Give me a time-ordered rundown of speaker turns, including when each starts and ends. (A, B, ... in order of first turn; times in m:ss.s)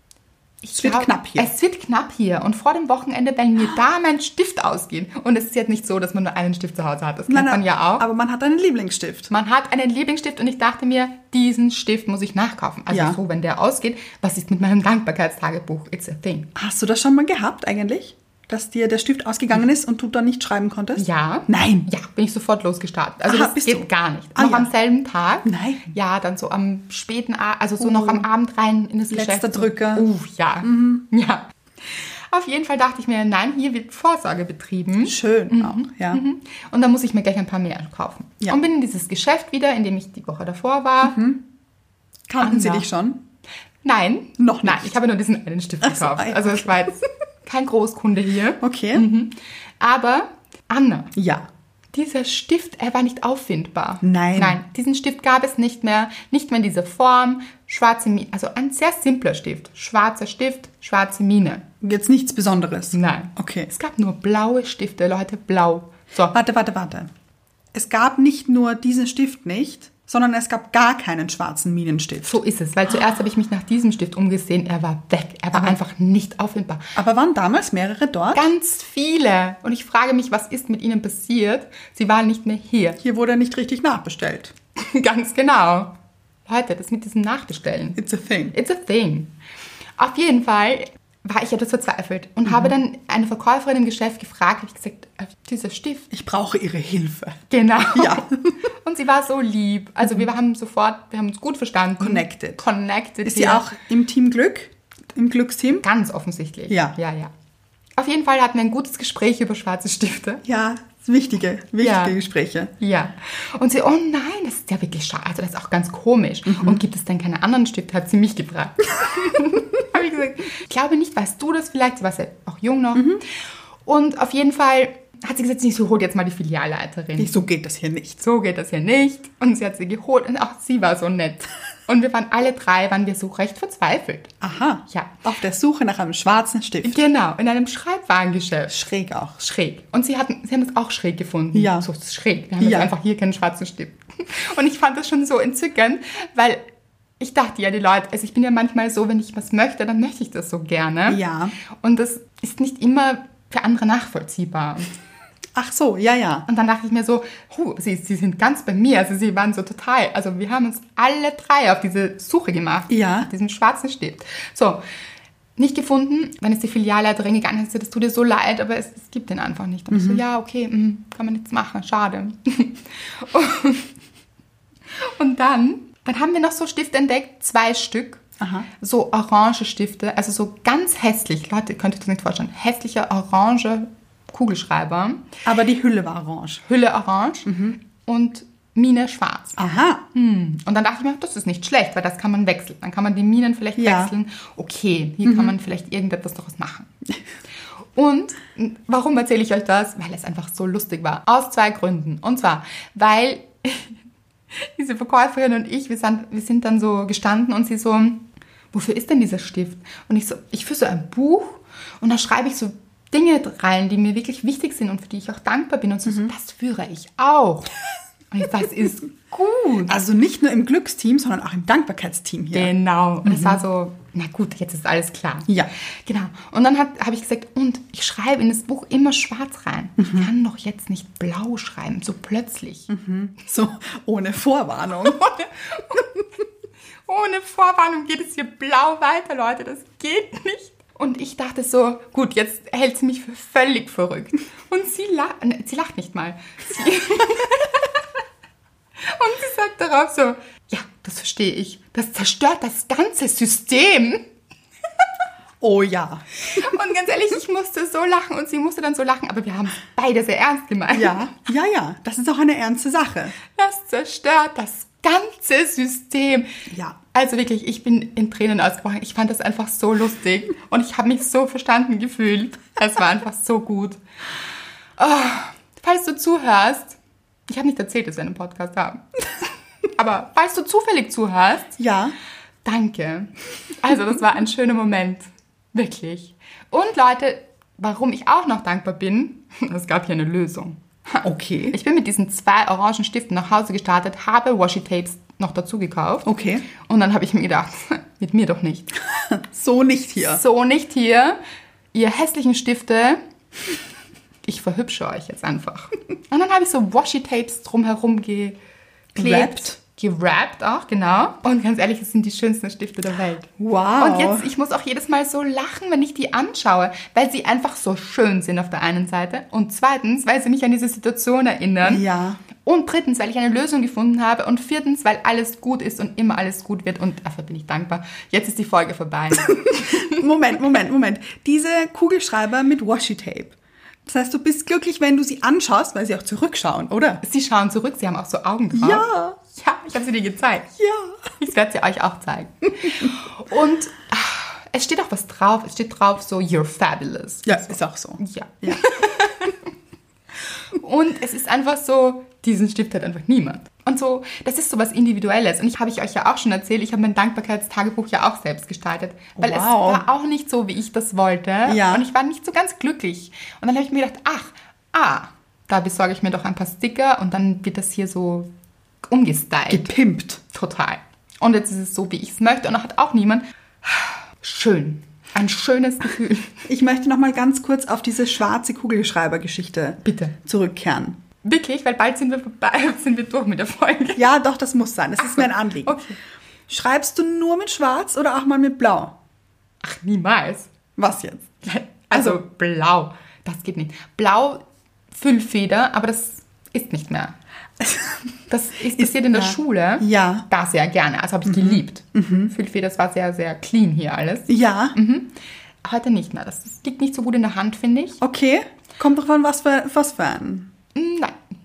0:00.6-0:08.0 A
0:00.7-0:01.5 B
0:07.3-0:09.3 B
0:09.3-0:16.5 A
0:12.9-0:13.2 B
0:16.6-0:21.9 B
0:21.0-0:41.2 A
0:23.2-0:24.7 B
0:25.4-0:25.9 B
0:27.8-0:28.3 B
0:29.1-0:30.0 B
0:30.6-0:31.0 B
0:35.0-0:36.2 B
0:41.0-0:41.4 B
0:42.3-0:43.2 B
0:42.4-0:42.9 A
0:43.8-0:51.1 A
0:44.4-0:45.0 B
0:45.8-0:47.0 B
0:48.6-0:49.0 B
0:51.1-0:51.5 B
0:51.9-1:01.6 A
0:54.0-0:54.6 B
1:01.8-1:03.7 B
1:02.9-1:06.3 A
1:06.3-1:07.1 B
1:07.7-1:12.4 B
1:12.2-1:16.8 A
1:17.0-1:18.5 B
1:18.3-1:23.0 A
1:23.0-1:24.5 B
1:24.8-1:25.9 A
1:26.5-1:28.0 A
1:28.0-1:28.6 B
1:28.5-1:29.3 A
1:30.0-1:36.1 A
1:32.4-1:32.7 B
1:36.1-1:38.5 B
1:37.5-1:43.7 A
1:42.0-1:42.6 B
1:43.2-1:45.8 B
1:45.8-1:47.3 A
1:46.7-1:47.0 B
1:48.0-1:50.4 A
1:50.4-1:52.7 B
1:51.8-1:52.2 A
1:52.8-2:03.2 A
1:56.5-1:56.8 B
2:02.9-2:03.2 B
2:03.8-2:07.4 A
2:07.2-2:08.2 B
2:08.2-2:14.3 A
2:14.4-2:17.0 B
2:16.8-2:18.8 A
2:18.7-2:19.4 B
2:19.4-2:26.6 A
2:21.5-2:21.8 B
2:22.6-2:22.9 B
2:27.2-2:31.2 A
2:31.1-2:31.5 B
2:31.8-2:34.9 A
2:35.5-2:36.5 B
2:36.5-2:44.8 A
2:42.9-2:43.3 B
2:45.6-2:53.9 A
2:49.9-2:50.2 B
2:55.0-2:58.2 A
2:58.4-2:58.7 B
2:58.8-3:05.3 A
3:05.4-3:06.6 B
3:06.7-3:09.6 A
3:07.4-3:07.8 B
3:09.6-3:10.0 B
3:10.1-3:16.9 A
3:13.8-3:14.1 B
3:15.2-3:15.5 B
3:17.9-3:23.9 A
3:24.5-3:37.7 A
3:38.3-3:39.9 A
3:39.9-3:42.7 B
3:42.5-3:45.5 A
3:43.2-3:43.6 B
3:46.0-3:52.9 A
3:50.0-3:50.3 B
3:52.9-3:55.3 B
3:55.1-3:56.0 A
3:57.1-4:08.0 A
4:09.0-4:14.2 A
4:15.6-4:16.6 B
4:16.5-4:21.3 A
4:20.9-4:23.4 B
4:23.5-4:26.5 A
4:26.7-4:27.0 B
4:27.1-4:34.0 A
4:35.0-4:41.8 A
4:41.8-4:42.1 B
4:42.6-4:58.9 A
4:51.2-4:51.8 B
4:56.2-4:56.6 B
4:59.3-5:00.4 B
5:00.2-5:01.4 A
5:01.9-5:03.2 A
5:04.4-5:08.6 A
5:09.1-5:09.8 B
5:09.1-5:22.0 A
5:13.6-5:14.5 B
5:21.8-5:22.4 B
5:22.6-5:30.2 A
5:29.7-5:37.2 B
5:37.2-5:40.7 A
5:38.7-5:39.4 B
5:40.8-5:41.2 B
5:41.4-5:49.6 A
5:47.4-5:48.8 B
5:50.7-6:08.5 A
5:59.4-6:00.0 B
6:01.6-6:02.0 B
6:09.1-6:09.9 A
6:09.7-6:10.4 B
6:10.5-6:16.6 A
6:16.6-6:21.2 B
6:20.0-6:20.3 A
6:21.4-6:24.2 A
6:24.2-6:26.0 B
6:25.2-6:26.2 A
6:26.7-6:29.2 B
6:29.8-6:30.7 A
6:31.0-6:31.5 B
6:31.6-6:37.4 A
6:32.1-6:32.4 B
6:38.5-6:45.3 A
6:39.0-6:40.5 B
6:41.4-6:42.5 B
6:44.5-6:45.0 B
6:45.8-6:48.2 A
6:48.2-6:50.7 B
6:50.9-6:51.4 A